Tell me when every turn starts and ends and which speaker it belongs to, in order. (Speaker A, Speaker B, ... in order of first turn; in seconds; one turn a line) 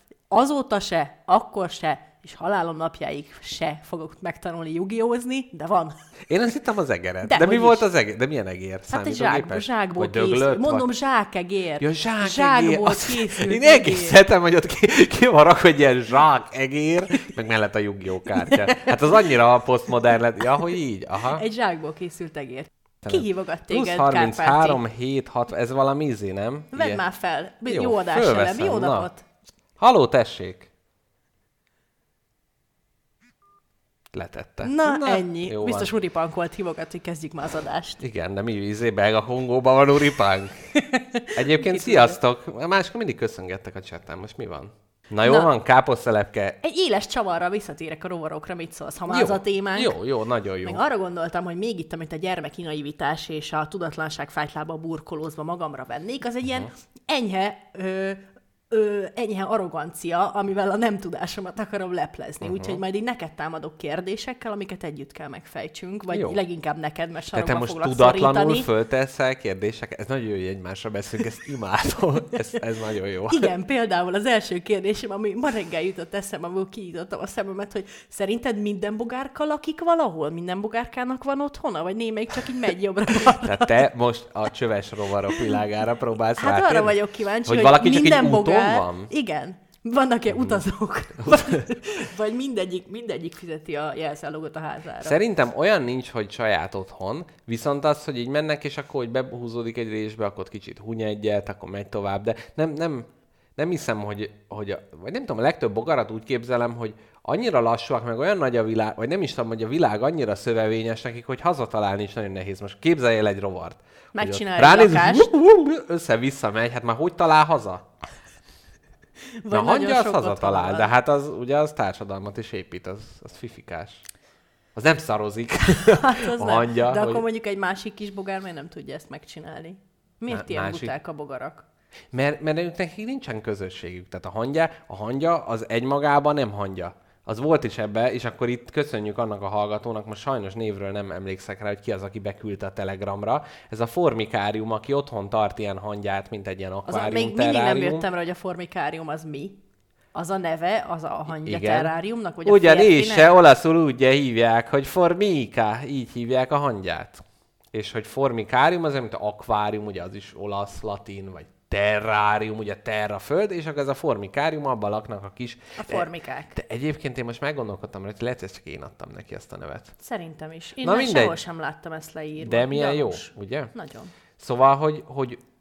Speaker A: 0.3-6.0
Speaker B: 6.3-10.9
Speaker A: 7.2-7.8
Speaker A: 8.9-14.2
Speaker B: 11.8-21.4
Speaker A: 18.3-18.9
Speaker A: 21.3-24.8
Speaker B: 23.0-27.0
Speaker A: 26.7-29.2
Speaker B: 27.7-29.1
Speaker B: 29.8-30.7
Speaker B: 34.1-35.9
Speaker A: 34.6-38.0
Speaker B: 38.0-40.7
Speaker A: 40.7-42.2
Speaker B: 41.3-46.6
Speaker A: 45.2-45.5
Speaker A: 46.6-50.0
Speaker B: 49.1-50.8
Speaker A: 50.6-68.7
Speaker B: 62.4-62.8
Speaker B: 66.1-66.4
Speaker B: 67.3-73.5
Speaker A: 73.3-83.8
Speaker B: 83.3-89.1
Speaker A: 86.3-95.2
Speaker B: 90.3-90.6
Speaker B: 91.2-91.7
Speaker B: 95.0-117.8
Speaker A: 114.1-115.3
Speaker A: 119.4-120.9
Speaker B: 119.5-124.0
Speaker B: 124.7-127.2
Speaker A: 126.0-131.6
Speaker B: 130.3-130.9
Speaker B: 132.1-148.1
Speaker A: 146.9-149.6
Speaker A: 150.1-153.3
Speaker B: 151.4-151.9
Speaker B: 152.4-169.9
Speaker A: 165.8-166.6
Speaker A: 170.0-174.1
Speaker B: 170.8-171.4
Speaker B: 172.4-173.7
Speaker B: 174.4-175.4